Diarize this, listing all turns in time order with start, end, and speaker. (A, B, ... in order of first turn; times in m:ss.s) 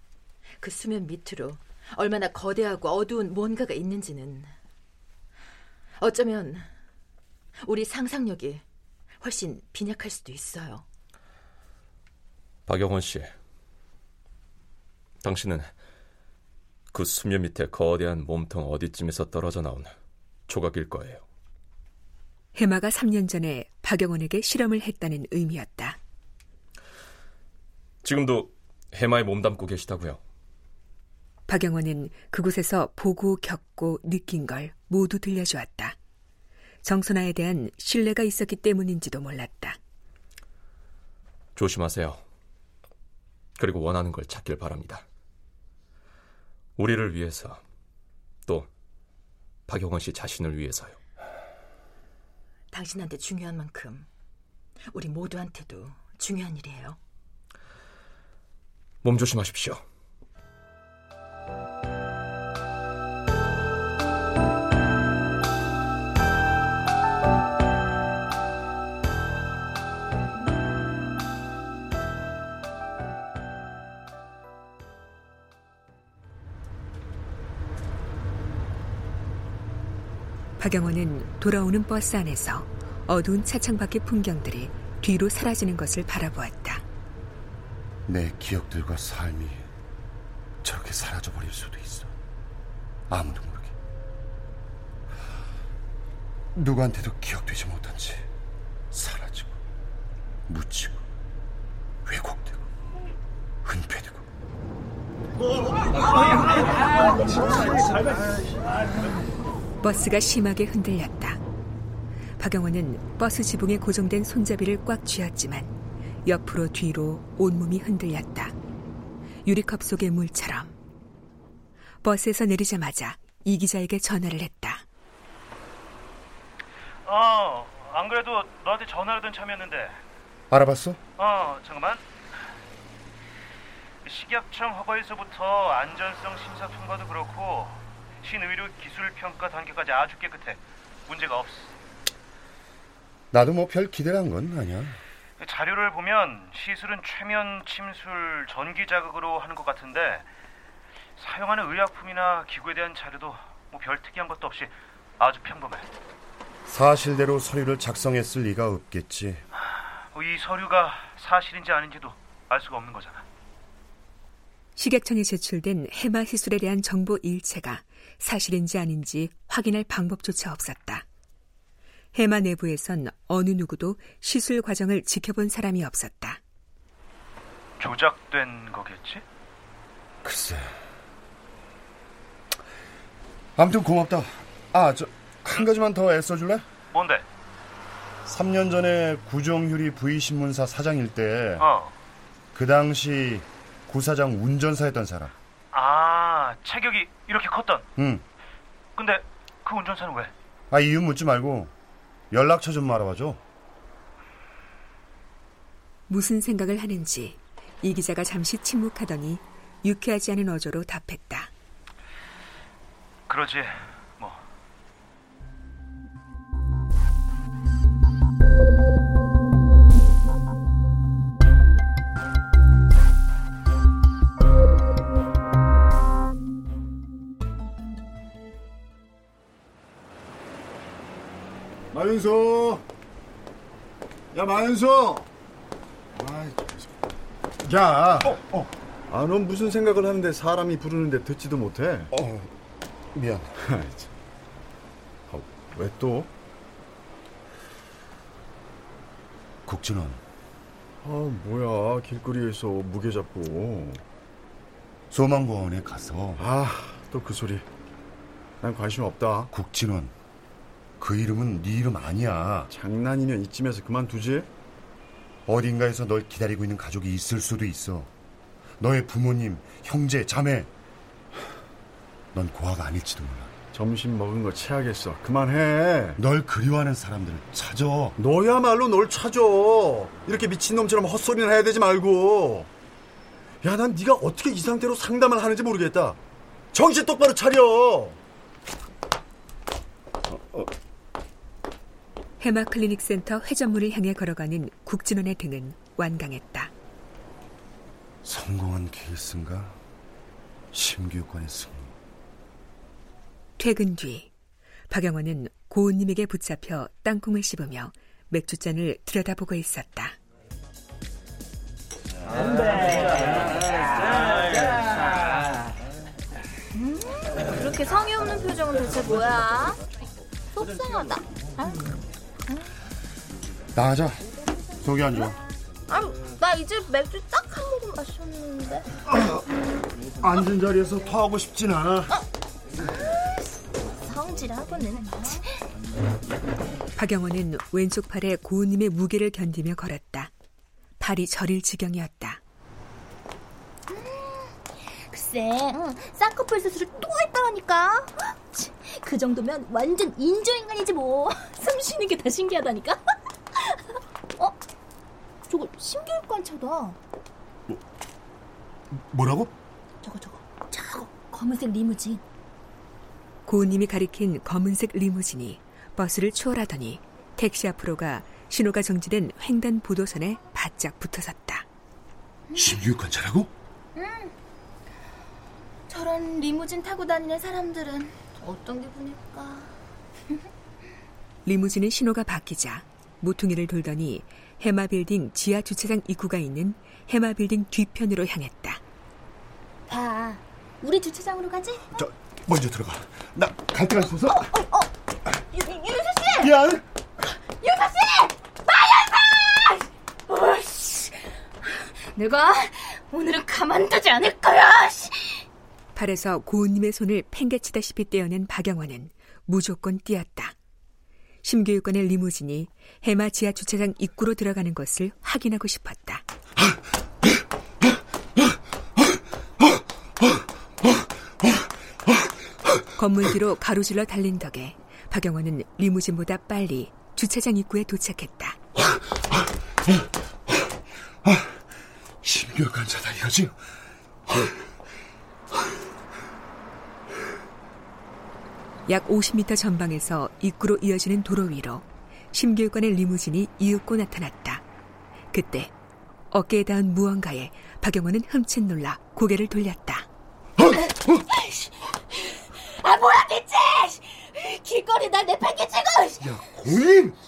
0:00.6-0:04.5 A
0:06.0-0:06.7 A
0:07.6-0:08.6 A
0:09.2-0:10.8 A
0:12.7-0:13.3 B
0:15.2-0:15.7 B
0:16.9-0:19.9 B
0:20.5-0:21.2 B
0:22.5-0:26.0 C
0:28.0-0:30.2 B
0:31.5-0:36.0 C
0:36.8-0:39.8 C
0:41.6-0:42.2 B
0:43.6-0:45.0 B
0:46.8-0:47.6 B
0:49.7-0:51.0 B
0:52.7-0:54.1 A
0:54.9-0:57.0 A
0:59.0-0:59.8 B
1:20.6-1:26.8 C
1:28.1-1:29.7 D
1:30.6-1:32.1 D
1:33.1-1:33.7 D
1:36.5-1:38.2 D
1:38.9-1:39.5 D
1:40.5-1:41.0 D
1:42.0-1:42.6 D
1:43.6-1:44.2 D
1:49.8-1:51.4 C
1:52.4-1:55.7 C
1:56.2-1:58.5 C
1:59.4-2:00.7 C
2:02.0-2:04.8 C
2:07.0-2:10.0 E
2:10.5-2:11.0 D
2:11.2-2:12.0 E
2:14.0-2:21.7 E
2:23.3-2:25.0 D
2:25.4-2:30.3 E
2:31.2-2:35.9 E
2:36.7-2:39.4 D
2:40.1-2:43.2 E
2:44.8-2:51.0 C
2:52.1-2:56.4 C
2:57.8-2:59.2 E
3:00.2-3:00.7 D
3:03.6-3:06.6 D
3:06.9-3:07.2 E
3:08.2-3:11.7 D
3:11.6-3:11.9 E
3:12.5-3:15.3 D
3:15.7-3:17.8 E
3:18.0-3:18.2 D
3:19.0-3:20.3 E
3:20.7-3:21.7 D
3:22.3-3:23.4 D
3:26.1-3:31.5 C
3:33.3-3:34.4 E
3:51.9-3:52.8 F
3:54.3-3:55.3 F
3:56.2-3:56.7 F
3:57.7-3:58.4 F
3:58.2-3:58.7 D
3:59.1-4:02.1 F
4:02.1-4:02.5 D
4:03.1-4:03.5 D
4:03.6-4:04.1 F
4:05.3-4:06.3 F
4:09.6-4:10.2 D
4:11.0-4:14.0 F
4:15.1-4:16.4 D
4:16.4-4:17.6 F
4:18.6-4:19.5 F
4:19.5-4:20.1 D
4:21.0-4:22.7 D
4:22.7-4:24.5 F
4:25.5-4:28.1 D
4:28.8-4:30.7 D
4:32.3-4:33.5 D
4:33.7-4:36.2 F
4:36.2-4:38.2 D
4:38.2-4:42.7 F
4:43.6-4:46.2 F
4:46.7-4:48.2 F
4:50.3-4:50.7 D
4:52.4-4:56.7 C
4:58.2-4:59.8 D
5:00.7-5:01.9 D
5:03.6-5:04.3 C
5:04.9-5:10.1 C
5:18.6-5:19.3 G
5:20.6-5:21.0 G
5:23.7-5:24.2 D
5:24.8-5:25.4 D
5:25.9-5:28.7 G
5:30.2-5:32.1 D
5:33.9-5:35.4 G
5:37.0-5:40.3 C
5:41.0-5:42.4 C
5:43.9-5:44.5 G
5:45.1-5:53.0 G
5:55.5-5:57.0 G
5:58.9-5:59.5 D
6:00.0-6:02.2 G
6:03.4-6:11.6 C
6:12.5-6:13.5 D
6:14.0-6:14.3 G
6:15.9-6:18.1 G
6:21.4-6:28.8 C
6:29.9-6:31.8 G
6:31.9-6:34.5 D
6:34.3-6:34.8 G
6:35.5-6:36.5 G
6:36.4-6:36.8 D
6:37.6-6:41.2 G
6:42.1-6:45.4 G
6:45.9-6:50.5 C
6:51.4-6:56.2 C
7:02.9-7:08.6 C
7:11.2-7:11.5 D
7:12.2-7:13.6 D
7:14.3-7:14.5 D
7:18.9-7:24.6 C
7:25.3-7:25.7 C
7:26.3-7:30.1 C
7:31.4-7:31.7 G
7:32.5-7:36.3 G
7:36.2-7:37.2 D